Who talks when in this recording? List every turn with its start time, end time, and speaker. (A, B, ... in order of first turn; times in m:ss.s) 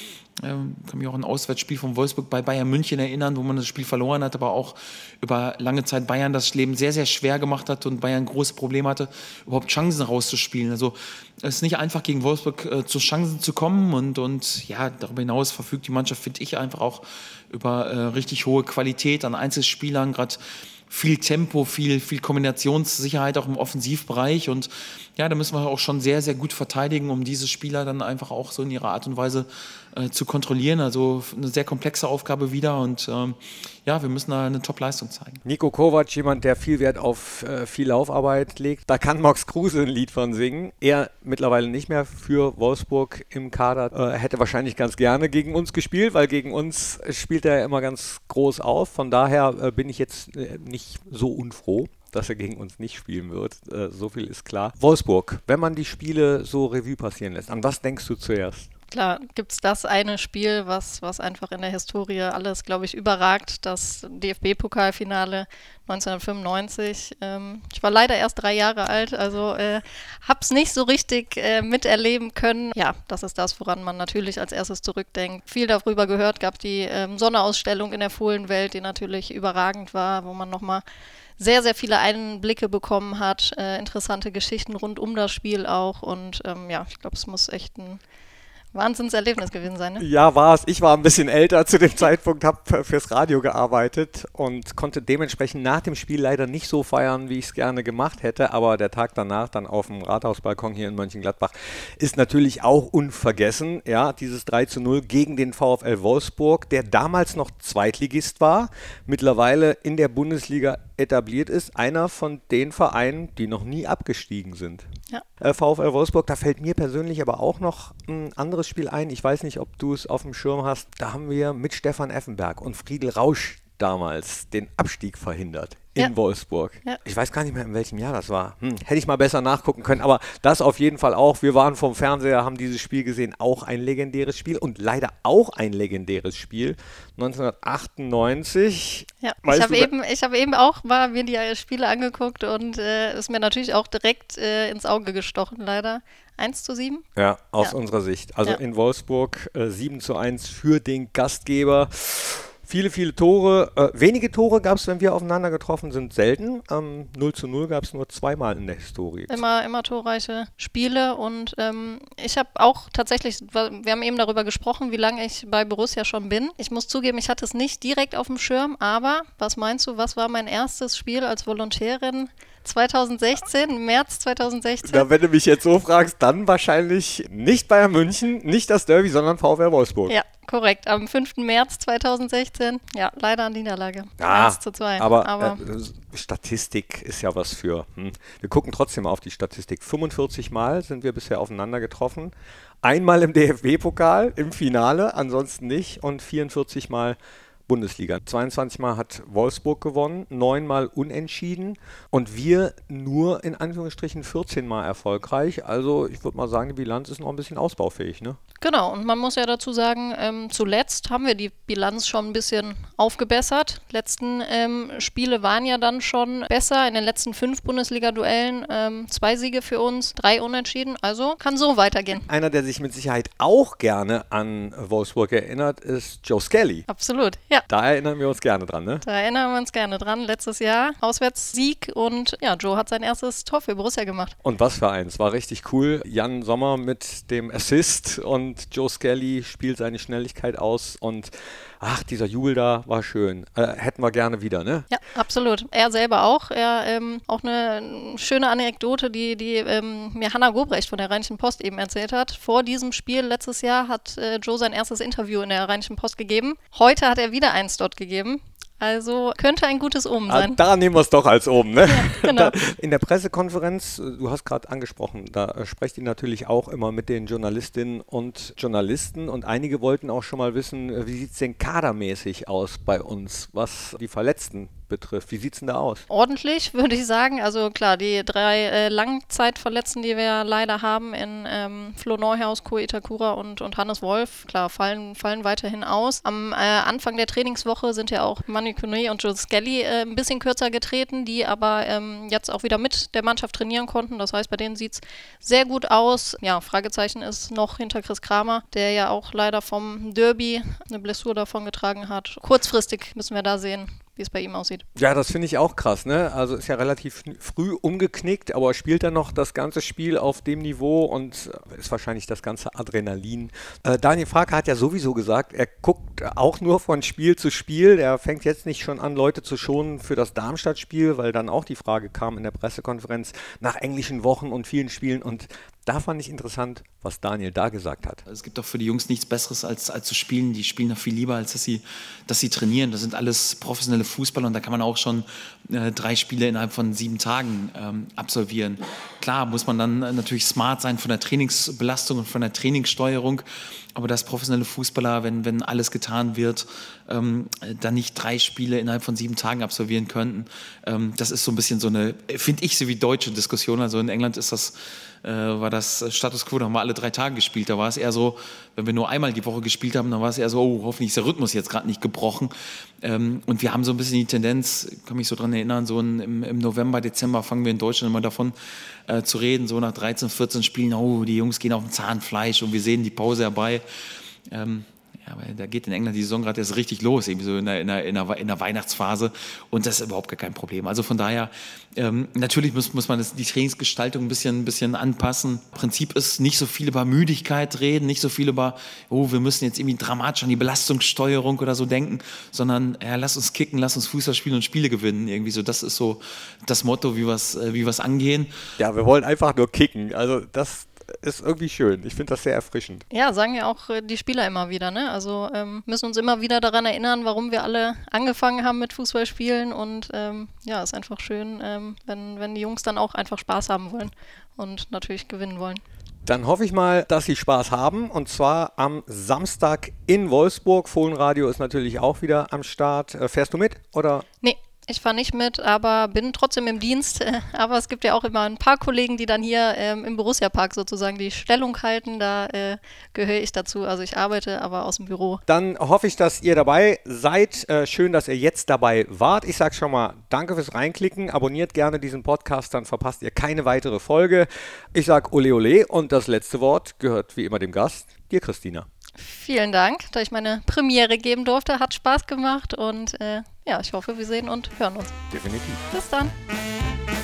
0:00.4-0:35.4 A
0:35.4-0:58.7 B
0:58.9-1:20.8 C
1:21.4-1:28.0 C
1:28.7-1:30.0 C
1:30.0-1:54.8 B
1:55.4-2:19.9 B
2:19.2-2:27.0 C
2:27.2-2:39.4 B
2:39.3-2:55.1 C
2:54.8-3:00.2 B
3:00.1-3:05.6 C
3:04.2-3:28.4 B
3:28.6-3:42.2 C
3:42.1-3:46.9 B
3:46.9-3:47.6 C
3:47.7-3:49.0 B
3:49.0-3:54.3 C
3:54.4-4:04.9 B
4:04.9-4:20.6 C
4:20.3-4:36.0 B
4:21.8-4:22.5 C
4:36.1-5:04.8 C
5:05.0-5:28.2 B
5:28.3-6:13.8 A
6:14.5-6:38.5 A
6:38.8-6:43.0 B
6:43.1-6:55.8 C
6:56.2-7:04.2 B
7:04.4-7:15.4 C
7:15.5-7:28.9 B
7:29.2-7:35.1 C
7:35.3-7:35.8 B
7:35.9-7:36.3 C